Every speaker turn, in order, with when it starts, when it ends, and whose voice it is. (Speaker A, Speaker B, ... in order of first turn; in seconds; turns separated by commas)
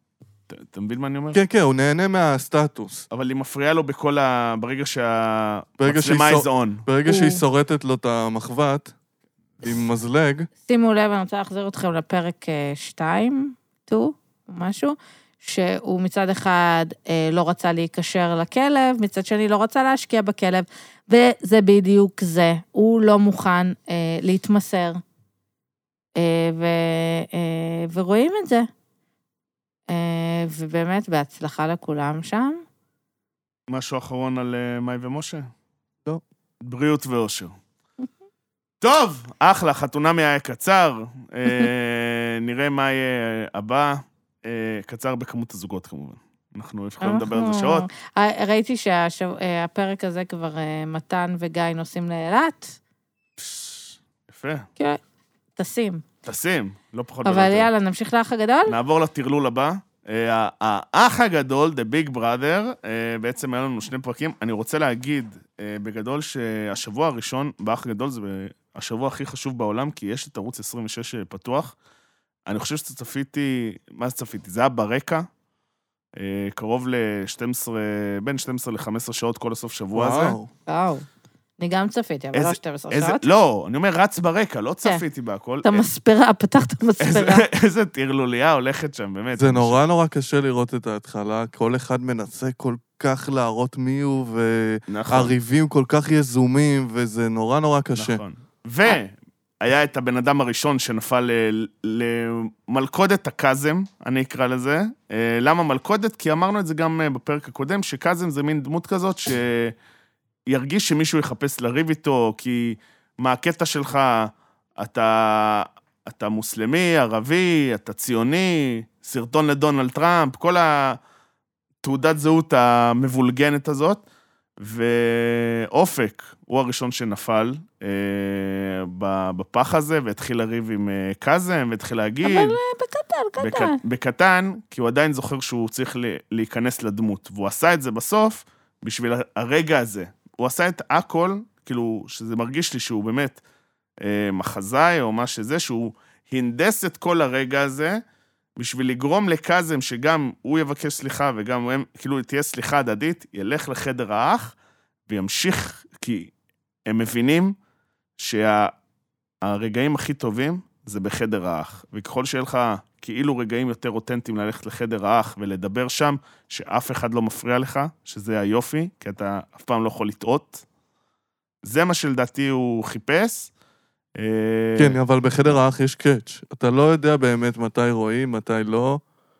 Speaker A: 0.5-1.4, Speaker B: 1.3-3.0, Speaker A: 3.1-6.8, Speaker B: 5.8-8.9, Speaker C: 7.0-7.4, Speaker B: 9.6-10.5, Speaker C: 10.7-25.0, Speaker C: 26.1-28.7, Speaker C: 29.9-32.6, Speaker A: 33.7-35.5, Speaker A: 36.6-37.5, Speaker A: 38.8-47.9, Speaker C: 47.0-52.8, Speaker A: 53.4-54.7, Speaker C: 55.6-56.0, Speaker A: 56.2-57.7, Speaker C: 57.2-58.8, Speaker A: 58.7-71.7, Speaker A: 72.5-75.2, Speaker A: 76.2-80.4, Speaker B: 79.9-80.5, Speaker C: 80.7-81.0, Speaker C: 81.6-83.2, Speaker A: 82.3-85.8, Speaker C: 85.6-87.4, Speaker A: 87.0-89.8, Speaker B: 89.4-98.2, Speaker A: 94.9-95.3, Speaker A: 98.0-109.8, Speaker A: 110.5-121.0, Speaker A: 121.8-124.0, Speaker A: 124.6-132.6, Speaker C: 132.2-133.8, Speaker A: 133.4-143.4, Speaker A: 144.0-148.0, Speaker A: 148.6-154.5, Speaker A: 155.1-156.3, Speaker A: 156.9-157.5, Speaker A: 158.2-158.7, Speaker A: 159.4-170.6, Speaker A: 171.6-173.5, Speaker A: 174.2-175.5, Speaker B: 174.8-179.0